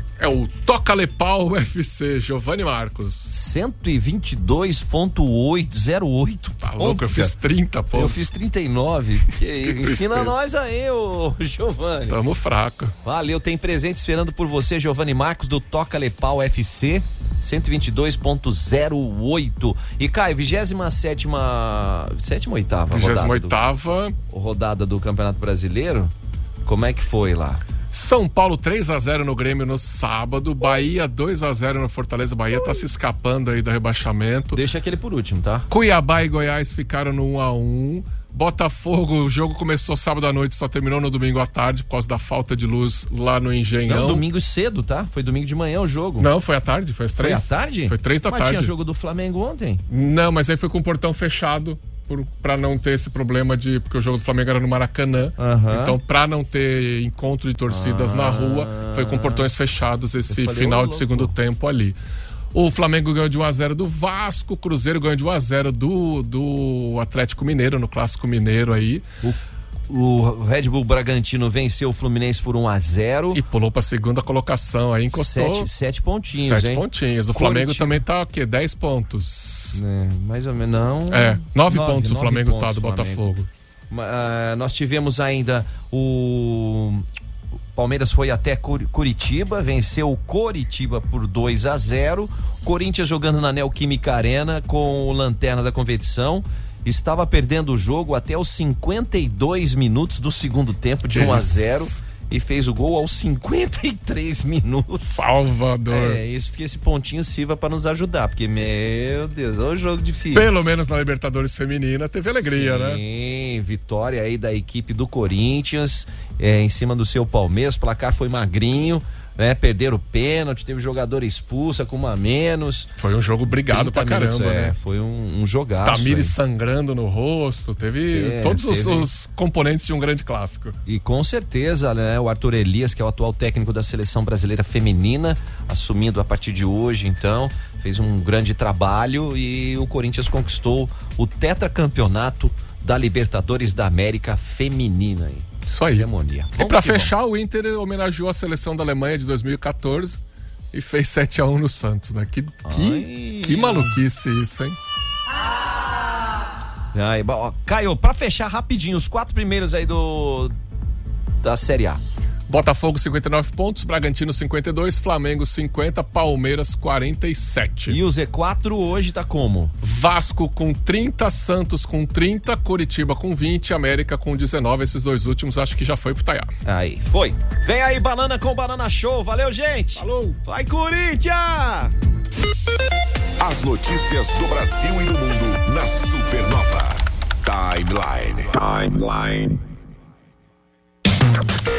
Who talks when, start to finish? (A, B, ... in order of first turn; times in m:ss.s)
0:00.2-0:03.3 A
0:03.3-0:07.3 B
0:06.6-0:08.3 A
0:07.9-0:12.2 B
0:09.6-0:10.3 A
0:12.1-0:12.9 A
0:13.0-0:23.5 B
0:22.9-0:24.1 A
0:24.3-0:26.1 B
0:26.6-0:27.6 B
0:27.9-0:34.6 A
0:34.5-0:35.7 B
0:35.7-0:44.2 A
0:43.9-0:46.3 B
0:46.2-0:48.7 A
0:47.2-0:49.8 B
0:49.9-1:02.0 A
0:55.4-0:56.0 B
0:57.7-0:59.5 B
1:00.3-1:01.3 B
1:02.5-1:09.0 A
1:09.2-1:13.4 B
1:13.3-1:15.7 A
1:15.1-1:18.0 B
1:16.4-1:19.8 A
1:19.7-1:23.2 B
1:21.1-1:23.5 A
1:23.9-1:27.0 B
1:27.7-1:45.3 B
1:41.1-1:42.0 A
1:45.1-1:46.2 A
1:45.9-1:50.6 B
1:50.3-1:53.0 A
1:52.4-2:02.9 B
2:03.0-2:04.7 A
2:03.7-2:06.3 B
2:05.8-2:10.7 A
2:08.1-2:09.1 B
2:10.9-2:27.1 B
2:25.7-2:30.2 A
2:30.7-2:34.8 A
2:32.6-2:34.0 B
2:36.9-2:40.5 B
2:41.4-2:42.0 B
2:42.5-2:48.0 A
2:47.9-2:49.7 B
2:49.8-2:56.5 A
2:56.6-3:01.9 B
3:00.0-3:00.4 A
3:03.4-3:09.6 C